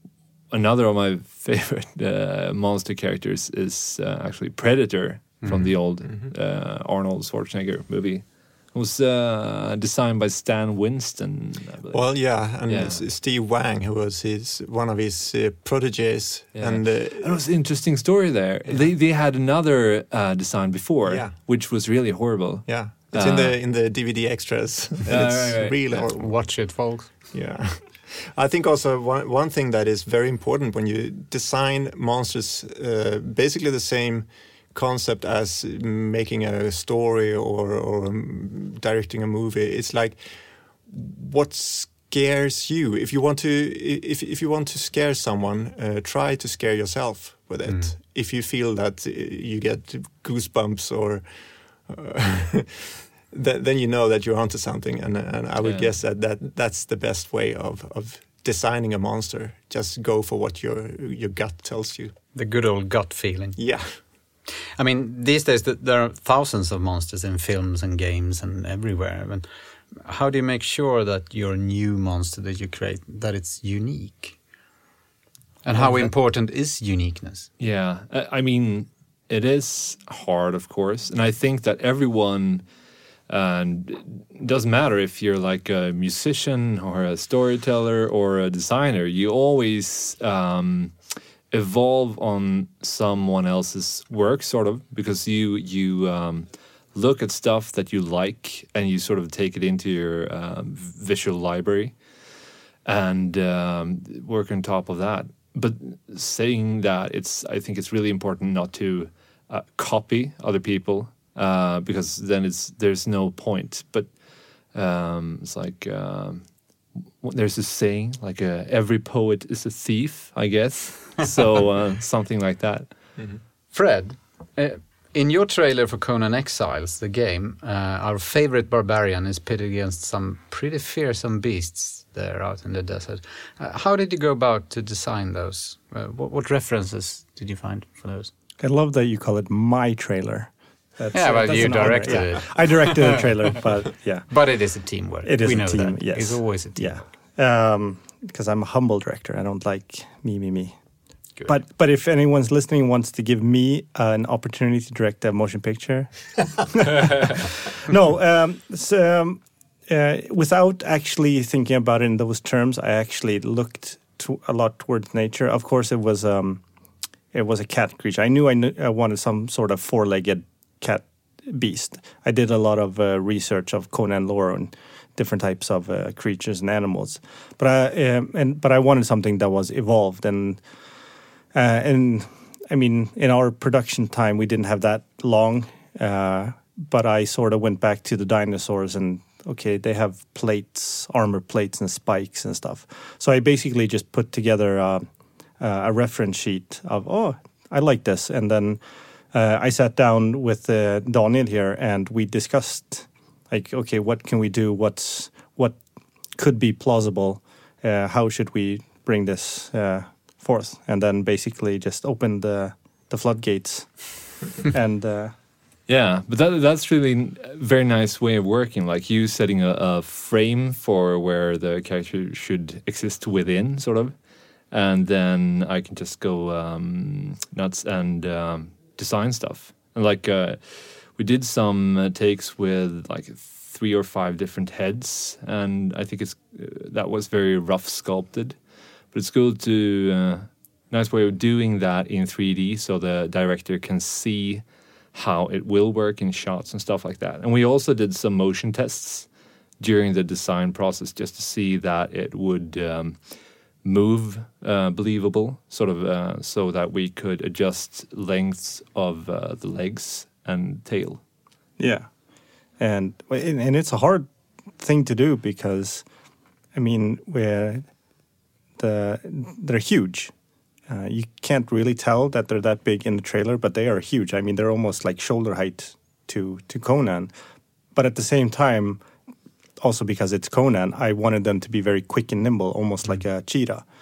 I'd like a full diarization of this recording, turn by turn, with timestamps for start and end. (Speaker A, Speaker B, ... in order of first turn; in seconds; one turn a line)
Speaker A: 0.5-13.0
Speaker B: 5.4-5.8
Speaker C: 6.0-6.3
Speaker C: 11.9-17.4
Speaker A: 16.5-23.6
Speaker C: 21.0-21.3
Speaker C: 22.7-26.3
Speaker A: 25.0-25.8
Speaker B: 25.9-27.1
Speaker C: 27.3-62.1
Speaker B: 47.6-47.9
Speaker A: 55.6-55.9
Speaker B: 62.3-63.6
Speaker C: 63.5-63.9
Speaker B: 64.8-74.3
Speaker B: 75.6-77.5
Speaker A: 77.6-82.6
Speaker A: 83.3-90.9
Speaker A: 91.5-102.0
Speaker A: 102.8-114.1
Speaker A: 114.7-116.5
Speaker A: 117.2-122.9
Speaker B: 123.7-138.3
Speaker D: 138.6-144.4
Speaker B: 141.1-143.2
Speaker B: 144.3-146.9
Speaker D: 145.2-150.8
Speaker D: 151.4-166.6
Speaker D: 167.3-180.6
Speaker D: 181.5-195.1
Speaker D: 195.6-198.8
Speaker D: 199.3-205.8
Speaker D: 206.3-215.3
Speaker A: 215.9-224.1
Speaker A: 224.7-238.6
Speaker A: 239.1-244.6
Speaker A: 245.1-249.3
Speaker A: 249.8-253.2
Speaker A: 253.8-261.2
Speaker D: 261.8-262.1
Speaker D: 262.8-266.1
Speaker D: 266.7-267.9
Speaker D: 268.8-270.3
Speaker D: 270.9-277.3
Speaker D: 277.9-279.0
Speaker D: 279.8-283.8